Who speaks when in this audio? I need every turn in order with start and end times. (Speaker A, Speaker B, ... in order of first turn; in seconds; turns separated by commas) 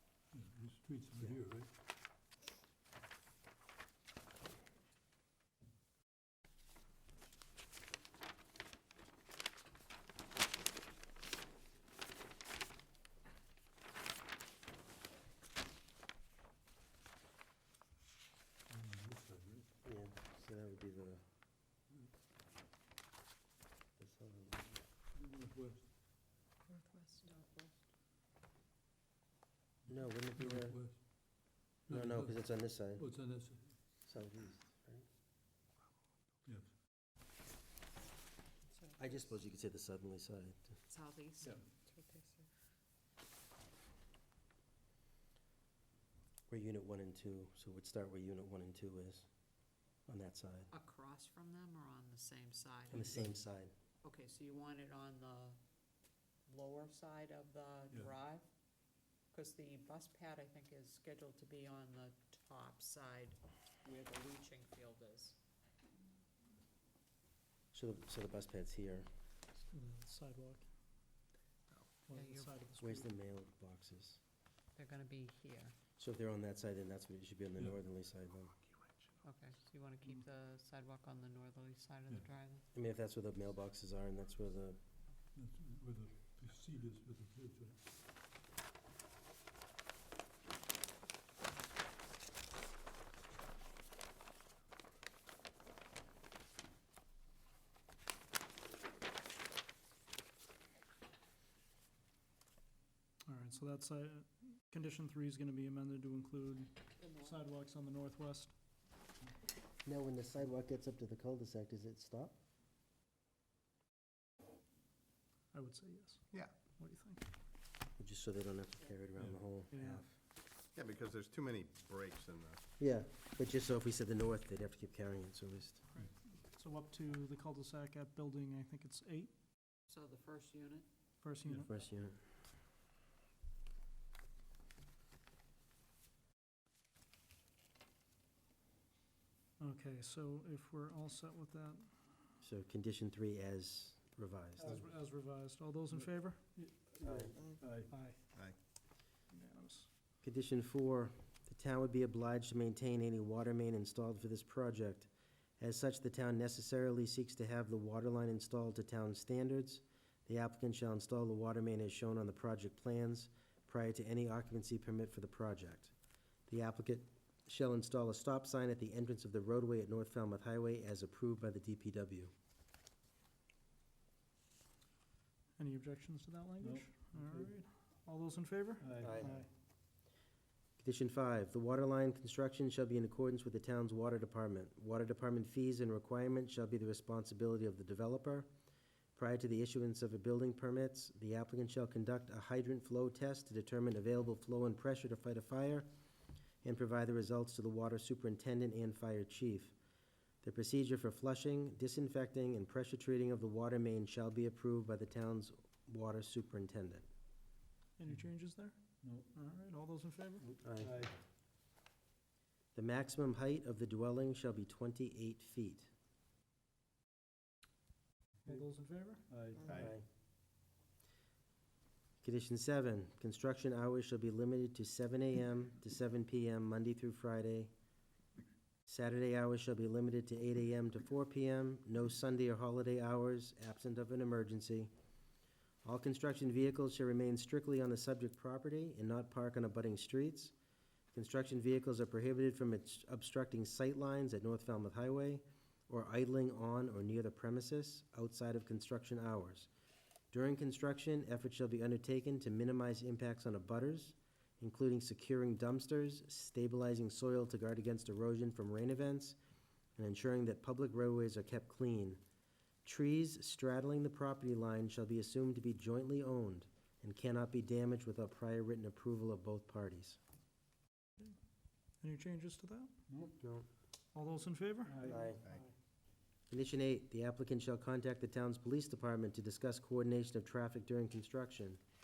Speaker A: 0.3-1.7, Speaker A: 18.7-19.7, Speaker B: 19.8-21.2, Speaker B: 24.0-24.8, Speaker A: 25.1-25.9, Speaker C: 26.7-27.8, Speaker A: 29.9-31.1, Speaker B: 29.9-30.8, Speaker A: 31.9-33.8, Speaker B: 31.9-33.0, Speaker B: 34.0-35.0, Speaker A: 36.5-36.7, Speaker C: 38.7-39.4, Speaker B: 39.0-40.8, Speaker C: 40.9-42.5, Speaker B: 46.5-49.2, Speaker B: 50.1-50.7, Speaker C: 50.7-53.1, Speaker B: 52.9-53.7, Speaker A: 52.9-53.3, Speaker C: 54.0-55.6, Speaker C: 56.5-58.4, Speaker C: 59.3-65.4, Speaker B: 67.7-69.1, Speaker D: 69.6-70.7, Speaker D: 72.1-73.1, Speaker C: 72.1-72.6, Speaker B: 72.8-74.2, Speaker C: 74.8-75.7, Speaker B: 76.0-78.5, Speaker C: 79.2-82.6, Speaker B: 82.7-84.8, Speaker A: 85.3-87.8, Speaker D: 103.2-108.5, Speaker C: 107.0-107.4, Speaker B: 109.8-112.3, Speaker D: 115.5-117.2, Speaker B: 118.0-120.1, Speaker D: 119.7-120.0, Speaker E: 120.7-122.6, Speaker B: 122.8-125.8, Speaker D: 125.9-129.3, Speaker C: 129.9-130.8, Speaker D: 131.2-131.7, Speaker B: 131.5-132.2, Speaker D: 139.6-142.1, Speaker B: 142.4-144.8, Speaker D: 144.6-146.7, Speaker A: 146.6-147.9, Speaker B: 147.0-147.3, Speaker D: 147.9-148.2, Speaker D: 149.3-149.9, Speaker B: 150.2-165.9, Speaker B: 166.5-172.3, Speaker D: 175.6-179.5, Speaker A: 176.6-177.5, Speaker A: 178.9-179.1, Speaker B: 179.0-179.4, Speaker B: 180.8-188.5, Speaker B: 189.1-195.9, Speaker B: 196.6-199.7, Speaker B: 200.4-207.1, Speaker D: 208.0-208.8, Speaker A: 209.0-209.3, Speaker D: 209.3-210.4, Speaker A: 210.4-211.1, Speaker B: 210.6-210.9, Speaker B: 212.7-215.9, Speaker D: 218.4-219.2, Speaker A: 219.3-219.9, Speaker B: 219.7-220.0, Speaker B: 222.2-227.7, Speaker B: 228.8-234.9, Speaker B: 235.8-240.5, Speaker B: 241.1-249.7, Speaker B: 250.3-259.4, Speaker B: 260.0-262.2, Speaker B: 262.8-270.2, Speaker D: 272.0-272.9, Speaker B: 273.4-273.7, Speaker D: 274.1-275.3, Speaker E: 274.9-275.7, Speaker B: 275.0-275.4, Speaker B: 276.5-281.8